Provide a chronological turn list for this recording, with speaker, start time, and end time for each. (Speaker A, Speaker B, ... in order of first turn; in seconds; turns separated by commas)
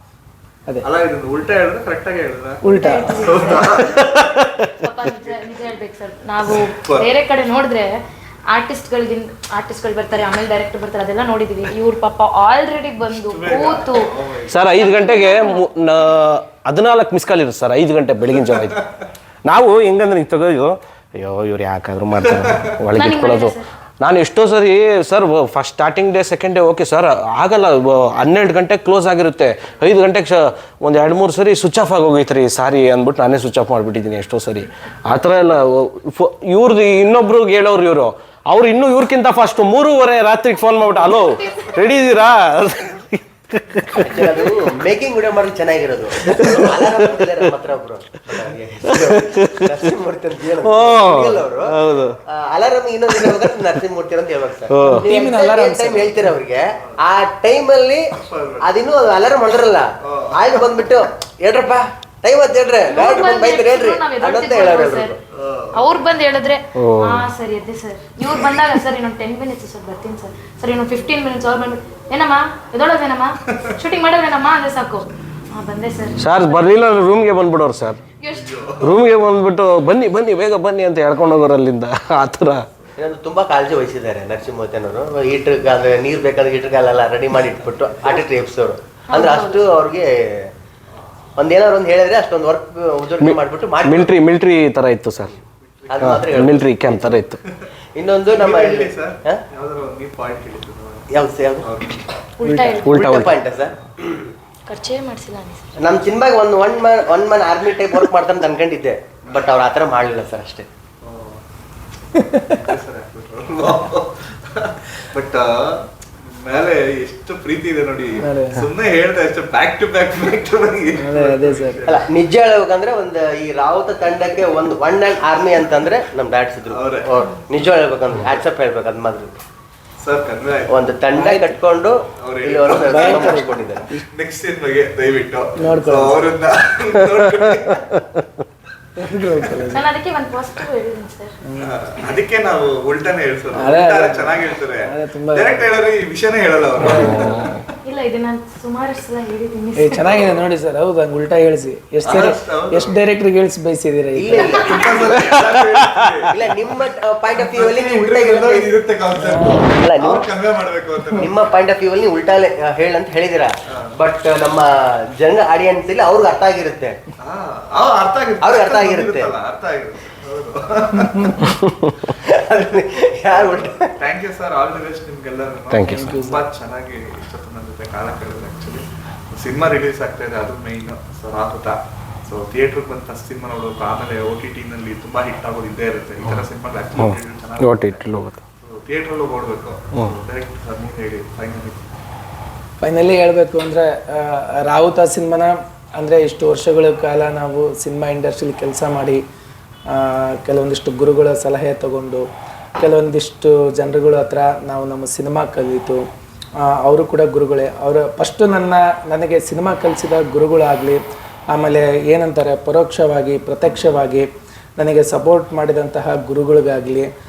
Speaker A: 0.8-4.3, Speaker B: 2.6-3.6, Speaker C: 2.7-4.1, Speaker D: 4.2-4.6, Speaker C: 4.8-7.9, Speaker A: 5.2-5.7, Speaker A: 6.5-7.1, Speaker C: 8.5-14.1, Speaker A: 13.1-14.9, Speaker D: 14.5-18.8, Speaker C: 14.8-15.6, Speaker D: 19.4-44.5, Speaker C: 22.9-23.6, Speaker C: 41.0-41.8, Speaker E: 44.1-51.8, Speaker D: 46.2-47.2, Speaker D: 48.9-49.8, Speaker D: 50.6-52.2, Speaker E: 52.3-58.0, Speaker D: 53.1-53.5, Speaker D: 54.7-55.1, Speaker B: 54.8-56.4, Speaker A: 58.1-58.7, Speaker E: 58.6-65.2, Speaker A: 60.0-60.5, Speaker C: 62.9-65.1, Speaker A: 65.3-66.1, Speaker C: 65.7-76.2, Speaker D: 66.8-67.2, Speaker D: 76.2-78.0, Speaker C: 78.2-78.6, Speaker A: 78.3-79.0, Speaker D: 78.8-82.6, Speaker E: 83.0-90.5, Speaker C: 89.1-89.6, Speaker E: 91.4-94.1, Speaker D: 93.2-95.3, Speaker A: 95.6-96.6, Speaker E: 95.9-97.2, Speaker D: 96.0-97.4, Speaker E: 98.0-99.4, Speaker A: 98.3-101.1, Speaker E: 101.1-101.7, Speaker A: 101.6-102.1, Speaker C: 102.4-103.0, Speaker B: 102.5-102.8, Speaker D: 102.8-103.3, Speaker E: 102.8-104.3, Speaker C: 104.7-105.7, Speaker E: 105.8-110.7, Speaker A: 111.0-111.4, Speaker A: 112.3-115.5, Speaker A: 116.2-122.0, Speaker B: 118.2-118.6, Speaker B: 121.0-121.8, Speaker E: 121.9-129.4, Speaker A: 126.7-127.1, Speaker A: 130.0-130.9, Speaker E: 130.7-133.8, Speaker B: 131.1-131.5, Speaker A: 132.2-138.0, Speaker B: 132.9-134.0, Speaker B: 135.6-136.2, Speaker B: 139.0-139.9, Speaker A: 139.2-139.8, Speaker C: 139.7-141.3, Speaker B: 141.4-141.8, Speaker A: 141.6-147.5, Speaker B: 143.6-145.7, Speaker B: 146.8-147.4, Speaker D: 146.8-147.5, Speaker C: 147.8-150.3, Speaker B: 149.8-154.8, Speaker A: 152.0-153.0, Speaker E: 154.2-154.8, Speaker A: 154.6-156.4, Speaker E: 156.3-158.8, Speaker A: 157.3-161.4, Speaker B: 159.1-159.6, Speaker E: 159.7-160.3, Speaker E: 161.2-167.0, Speaker A: 167.2-171.5, Speaker E: 168.4-169.3, Speaker E: 172.1-173.9, Speaker A: 173.3-191.8, Speaker D: 175.7-176.2, Speaker B: 175.8-176.4, Speaker D: 187.0-188.4, Speaker B: 192.8-199.2, Speaker B: 199.9-202.2, Speaker B: 202.8-206.0, Speaker B: 206.6-217.1